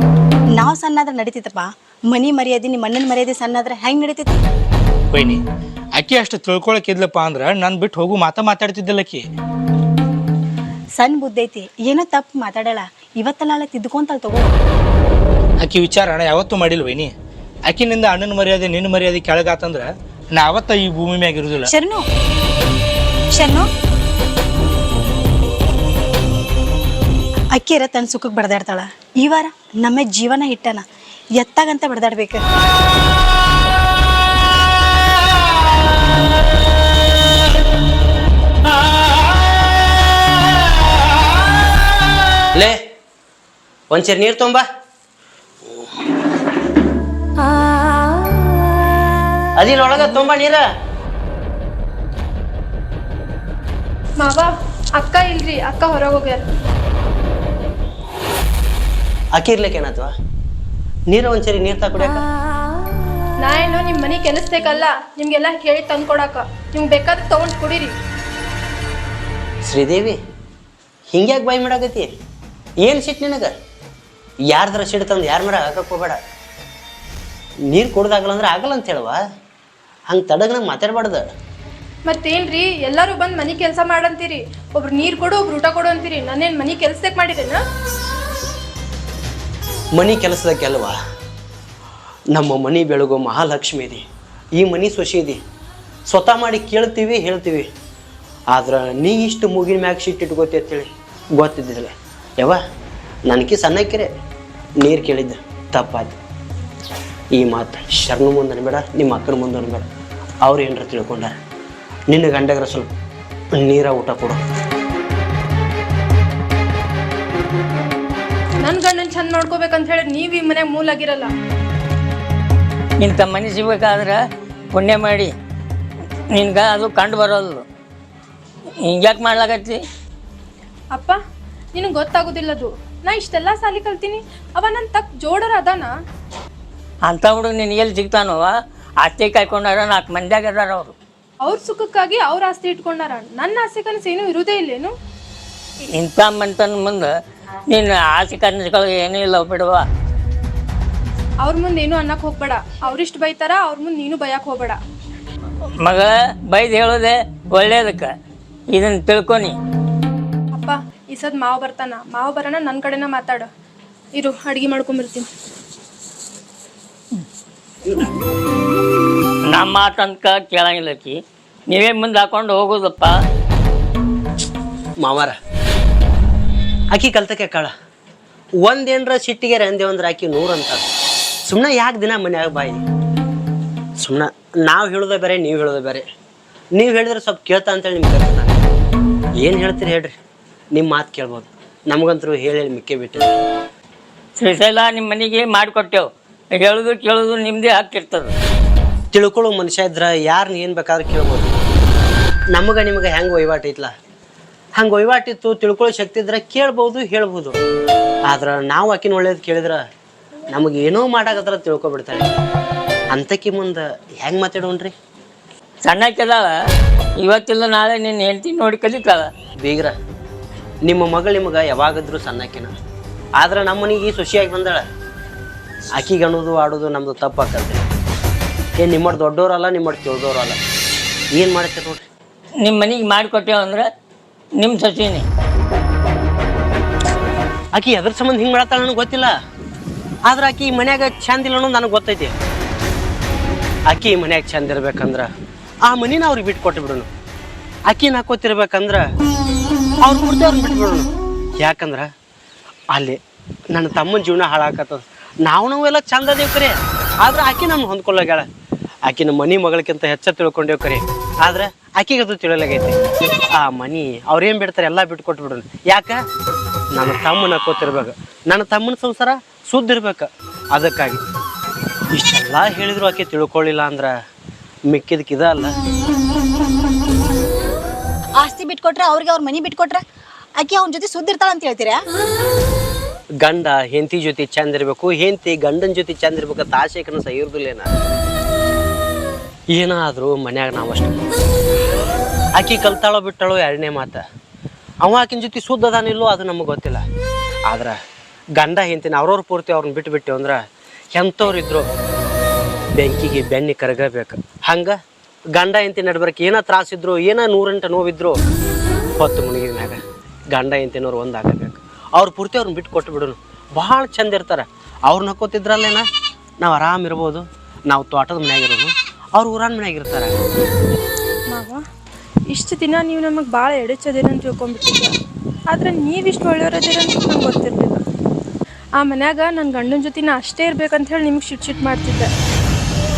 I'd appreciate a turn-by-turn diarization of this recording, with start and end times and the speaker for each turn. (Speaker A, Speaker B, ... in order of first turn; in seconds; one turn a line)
Speaker A: 0.5-4.4
Speaker B: 5.1-5.4
Speaker B: 6.0-9.2
Speaker A: 11.0-14.5
Speaker B: 15.6-17.1
Speaker B: 17.7-21.7
Speaker A: 21.7-22.0
Speaker A: 23.3-23.7
Speaker A: 27.5-30.8
Speaker A: 31.4-32.4
Speaker C: 42.5-42.8
Speaker C: 43.9-44.6
Speaker C: 49.6-50.6
Speaker D: 54.2-56.4
Speaker C: 59.3-60.1
Speaker C: 61.1-62.2
Speaker D: 63.4-67.9
Speaker C: 69.6-70.2
Speaker C: 71.1-72.1
Speaker C: 72.8-73.5
Speaker C: 74.5-76.2
Speaker C: 77.7-79.2
Speaker C: 80.1-81.3
Speaker D: 82.1-87.6
Speaker C: 89.9-91.0
Speaker C: 92.3-95.4
Speaker C: 96.1-97.7
Speaker C: 98.5-102.6
Speaker C: 103.3-104.1
Speaker C: 104.8-106.2
Speaker C: 107.3-109.9
Speaker C: 110.4-111.4
Speaker C: 112.1-112.9
Speaker C: 113.5-114.4
Speaker D: 118.6-121.3
Speaker E: 123.0-124.2
Speaker E: 124.7-125.3
Speaker E: 126.3-127.6
Speaker E: 128.8-129.8
Speaker D: 130.9-131.2
Speaker D: 131.7-135.9
Speaker E: 137.1-140.9
Speaker D: 141.4-144.9
Speaker E: 145.9-147.2
Speaker E: 147.7-149.8
Speaker D: 151.4-154.8
Speaker E: 155.8-158.1
Speaker E: 158.7-159.5
Speaker D: 160.5-163.5
Speaker D: 164.2-165.3
Speaker E: 169.5-173.2
Speaker C: 175.0-175.4
Speaker C: 176.9-177.7
Speaker C: 178.6-180.8
Speaker C: 181.5-182.8
Speaker C: 184.0-186.1
Speaker C: 186.7-188.6
Speaker C: 189.4-190.1
Speaker C: 190.7-193.3
Speaker E: 194.4-198.3
Speaker C: 199.1-201.5
Speaker C: 202.5-203.9
Speaker C: 204.8-207.6
Speaker C: 208.3-209.8
Speaker C: 210.5-212.4
Speaker C: 213.1-214.9
Speaker E: 215.8-216.5
Speaker E: 217.2-219.3
Speaker C: 219.6-219.9
Speaker C: 220.8-222.7
Speaker C: 223.4-224.8
Speaker C: 225.9-227.8
Speaker C: 228.8-230.6
Speaker C: 231.3-232.1
Speaker E: 232.6-233.9
Speaker E: 234.6-235.2
Speaker C: 237.7-239.3
Speaker C: 240.3-242.3
Speaker C: 243.9-245.3
Speaker C: 245.8-247.1
Speaker C: 247.9-249.1
Speaker C: 250.0-252.1
Speaker C: 252.9-253.2
Speaker C: 253.7-258.5
Speaker C: 259.0-263.0
Speaker C: 263.5-266.2
Speaker C: 266.9-271.2
Speaker C: 272.1-274.2
Speaker C: 274.9-275.7
Speaker A: 278.4-280.0
Speaker A: 280.6-282.0
Speaker C: 283.4-287.9
Speaker C: 289.7-291.2
Speaker C: 292.6-294.2
Speaker C: 295.0-297.0
Speaker C: 297.7-298.0
Speaker C: 298.6-301.9
Speaker C: 302.9-305.0
Speaker C: 305.5-308.4
Speaker C: 309.2-316.0
Speaker C: 316.6-320.3
Speaker D: 321.5-321.8
Speaker D: 322.5-325.1
Speaker D: 325.7-328.0
Speaker D: 329.0-332.3